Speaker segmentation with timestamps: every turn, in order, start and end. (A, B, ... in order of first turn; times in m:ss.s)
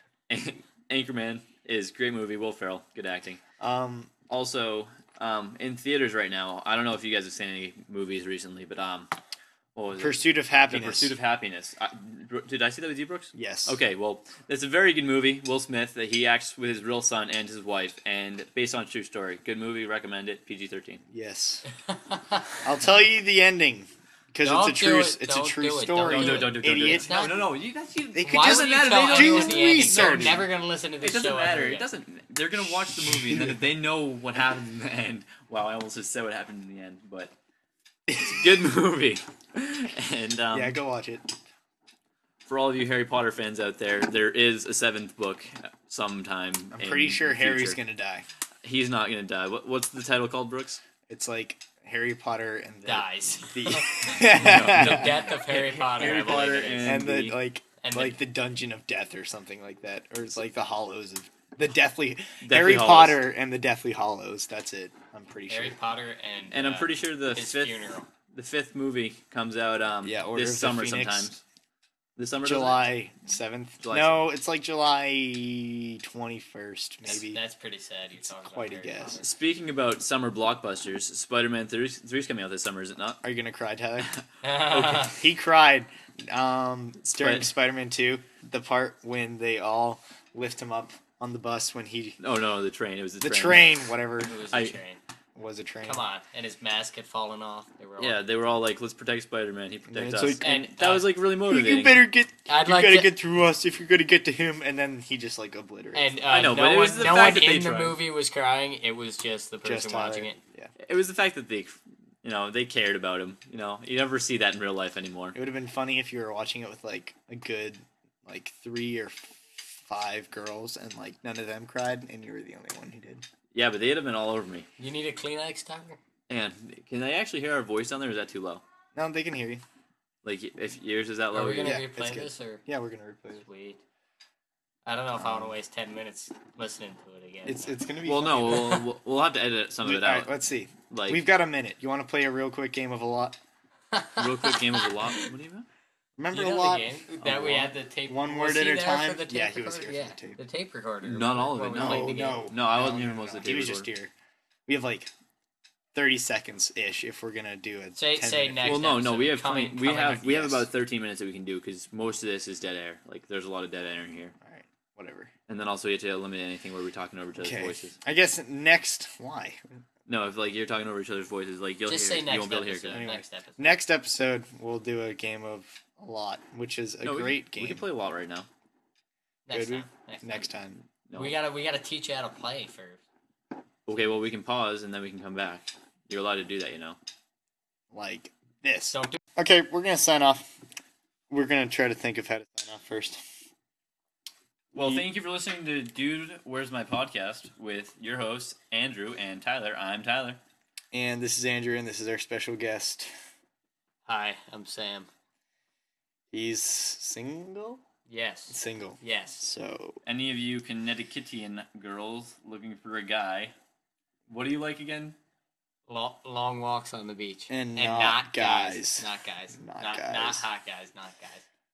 0:00.3-0:03.4 A
0:03.6-0:04.1 B
0:04.3-0:09.1 A
0:09.8-0:21.0 A
0:10.0-0:11.2 B
0:13.3-0:13.8 B
0:21.1-0:21.6 B
0:21.9-0:22.5 C
0:22.6-0:27.1 B
0:24.4-0:27.5 C
0:26.1-0:30.5 A
0:28.2-0:30.5 B
0:28.3-0:31.9 C
0:31.0-0:37.3 A
0:33.0-0:33.6 B
0:38.1-0:38.6 B
0:38.2-0:40.8 A
0:40.5-0:41.3 B
0:42.5-0:47.8 A
0:46.7-0:48.3 B
0:48.6-0:50.8 A
0:51.1-0:56.1 B
0:52.8-0:54.1 C
0:54.2-0:57.4 A
0:54.7-0:57.0 C
0:56.8-1:05.8 B
0:57.8-0:58.2 C
1:02.4-1:03.2 A
1:05.5-1:08.1 C
1:06.5-1:11.4 A
1:10.0-1:11.3 B
1:12.2-1:12.8 A
1:12.4-1:17.4 B
1:13.8-1:14.3 A
1:17.1-1:19.2 C
1:18.3-1:19.2 B
1:19.2-1:23.2 A
1:23.2-1:24.1 B
1:24.4-1:25.2 C
1:24.7-1:32.2 B
1:27.2-1:27.5 A
1:32.2-1:33.8 A
1:33.2-1:34.4 B
1:34.2-1:35.0 C
1:34.5-1:34.8 A
1:35.4-1:36.0 B
1:35.8-1:38.2 C
1:38.0-1:42.0 A
1:39.9-1:40.5 B
1:40.4-1:41.1 C
1:41.5-1:46.4 B
1:42.5-1:43.1 C
1:45.9-1:50.4 C
1:46.3-1:48.0 A
1:49.6-1:50.7 B
1:50.8-1:55.4 A
1:55.4-2:03.2 B
2:03.5-2:04.7 A
2:04.8-2:06.0 C
2:06.3-2:08.6 A
2:09.0-2:09.6 B
2:10.2-2:11.8 A
2:11.3-2:12.6 C
2:11.6-2:13.4 B
2:13.4-2:13.8 C
2:14.9-2:17.8 C
2:15.2-2:15.6 B
2:17.5-2:18.8 B
2:18.0-2:20.3 A
2:18.5-2:18.8 C
2:19.8-2:23.4 B
2:20.9-2:21.2 A
2:23.9-2:25.2 C
2:24.2-2:25.7 A
2:26.2-2:27.0 B
2:26.3-2:32.5 C
2:27.2-2:27.7 A
2:28.1-2:30.4 B
2:31.0-2:33.9 A
2:31.8-2:34.1 B
2:34.7-2:35.1 B
2:35.9-2:38.8 B
2:38.0-2:40.5 C
2:38.6-2:44.4 A
2:40.3-2:40.7 B
2:44.4-2:45.3 B
2:45.5-2:48.0 A
2:47.4-2:49.6 B
2:50.1-2:53.0 A
2:51.9-2:53.8 C
2:52.9-2:57.8 B
2:57.0-2:58.5 A
2:59.5-3:00.5 C
2:59.5-3:00.9 B
3:01.1-3:01.4 A
3:01.1-3:03.0 C
3:03.9-3:07.0 A
3:07.9-3:10.5 B
3:08.9-3:09.2 C
3:11.3-3:13.2 B
3:14.7-3:20.4 A
3:14.8-3:15.0 B
3:20.9-3:23.1 B
3:24.1-3:25.1 C
3:26.3-3:27.8 B
3:28.1-3:29.4 C
3:28.5-3:30.0 B
3:30.0-3:33.6 A
3:34.3-3:35.2 A
3:35.9-3:41.4 C
3:37.5-3:40.5 B